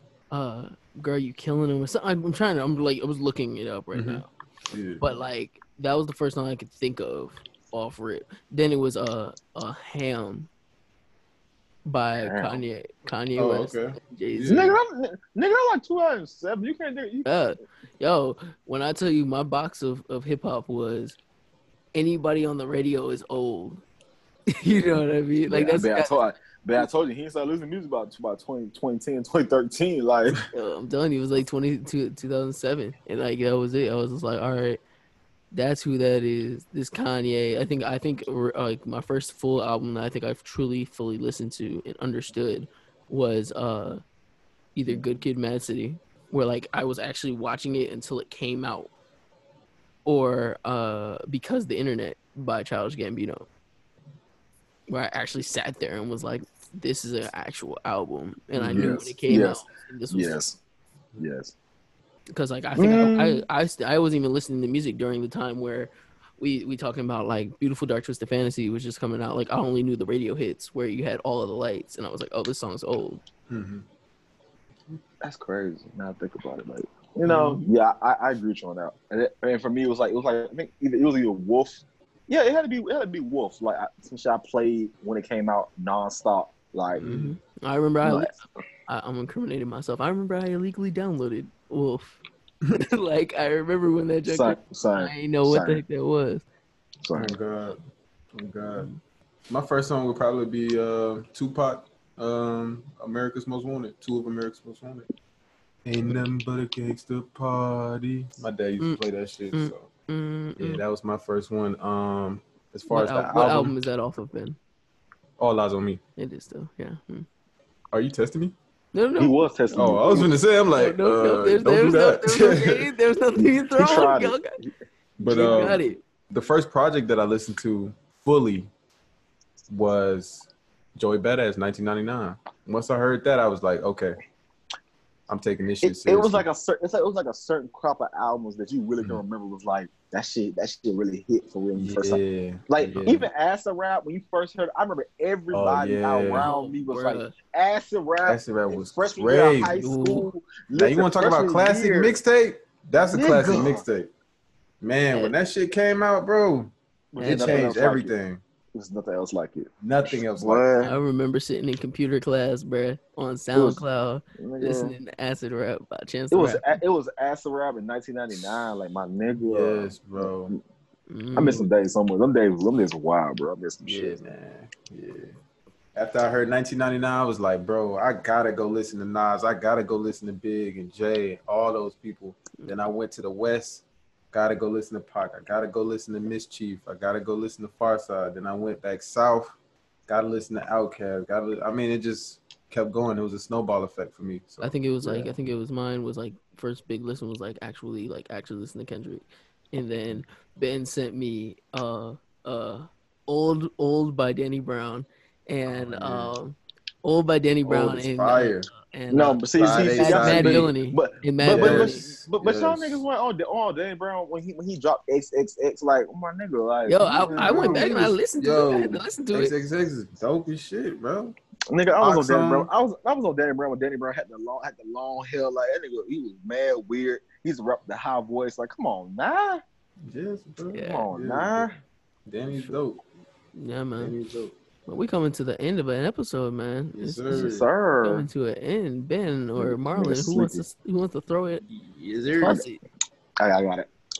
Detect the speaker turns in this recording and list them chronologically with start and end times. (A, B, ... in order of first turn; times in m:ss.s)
0:00.3-0:04.3 A
0:03.9-0:05.1 B
0:05.0-0:10.5 A
0:11.8-0:14.6 A
0:12.2-0:12.6 C
0:13.4-0:14.8 B
0:14.4-0:17.3 C
0:17.2-0:21.2 A
0:22.0-0:23.8 A
0:24.5-0:26.2 A
0:25.5-0:30.4 C
0:30.5-0:34.8 A
0:35.5-0:44.0 A
0:44.7-0:48.9 A
0:50.0-0:53.4 A
0:54.9-1:00.4 A
0:58.6-0:59.0 B
0:58.7-1:00.6 C
1:01.2-1:01.5 C
1:02.3-1:13.2 A
1:02.8-1:03.4 C
1:13.5-1:13.8 B
1:15.2-1:27.1 C
1:17.2-1:17.6 B
1:27.0-1:36.4 A
1:27.0-1:27.3 B
1:28.0-1:28.3 C
1:34.3-1:35.8 C
1:37.0-1:37.3 C
1:37.1-1:37.8 B
1:38.3-1:38.9 B
1:38.7-1:39.0 A
1:39.5-1:45.1 B
1:45.8-1:49.9 B
1:49.5-1:50.8 A
1:50.6-1:53.7 B
1:52.9-1:54.6 A
1:55.4-1:56.0 B
1:56.2-1:57.3 A
1:57.9-1:58.6 B
1:58.9-1:59.9 A
1:59.2-2:00.3 C
1:59.7-2:02.9 B
2:00.7-2:04.6 A
2:03.4-2:04.7 C
2:05.2-2:08.7 B
2:05.2-2:06.0 A
2:05.3-2:05.8 C
2:09.7-2:14.2 B
2:15.3-2:16.4 B
2:15.8-2:32.2 C
2:21.8-2:23.3 B
2:25.5-2:26.5 B
2:26.4-2:27.3 A
2:28.2-2:29.8 B
2:29.7-2:30.3 A
2:30.7-2:34.1 B
2:33.1-2:33.8 C
2:34.8-2:38.4 B
2:37.1-2:38.1 C
2:37.2-2:37.6 A
2:38.7-2:41.0 C
2:39.8-2:40.7 B
2:40.8-2:46.8 A
2:43.5-2:43.8 C
2:44.4-2:45.0 C
2:46.3-2:50.6 C
2:49.4-2:50.6 B
2:51.1-2:51.7 A
2:51.3-2:54.2 C
2:53.8-2:55.3 B
2:56.0-3:09.6 B
3:10.1-3:15.4 B
3:14.6-3:32.0 A
3:25.7-3:26.3 B
3:27.7-3:28.7 B
3:29.1-3:37.9 C
3:29.6-3:30.7 B
3:31.4-3:33.0 B
3:36.9-3:39.6 A
3:37.3-3:41.4 B
3:41.7-3:49.6 C
3:42.0-3:42.7 B
3:50.0-3:51.7 B
3:50.7-3:51.1 A
3:50.8-3:51.8 C
3:52.3-3:53.0 B
3:52.5-3:52.8 C
3:53.5-3:54.2 A
3:54.0-3:54.5 B
3:54.9-4:01.6 A
3:56.9-3:57.7 B
3:57.3-3:58.3 C
3:59.6-4:00.7 C
4:01.6-4:02.6 B
4:02.4-4:02.8 A
4:03.4-4:03.9 C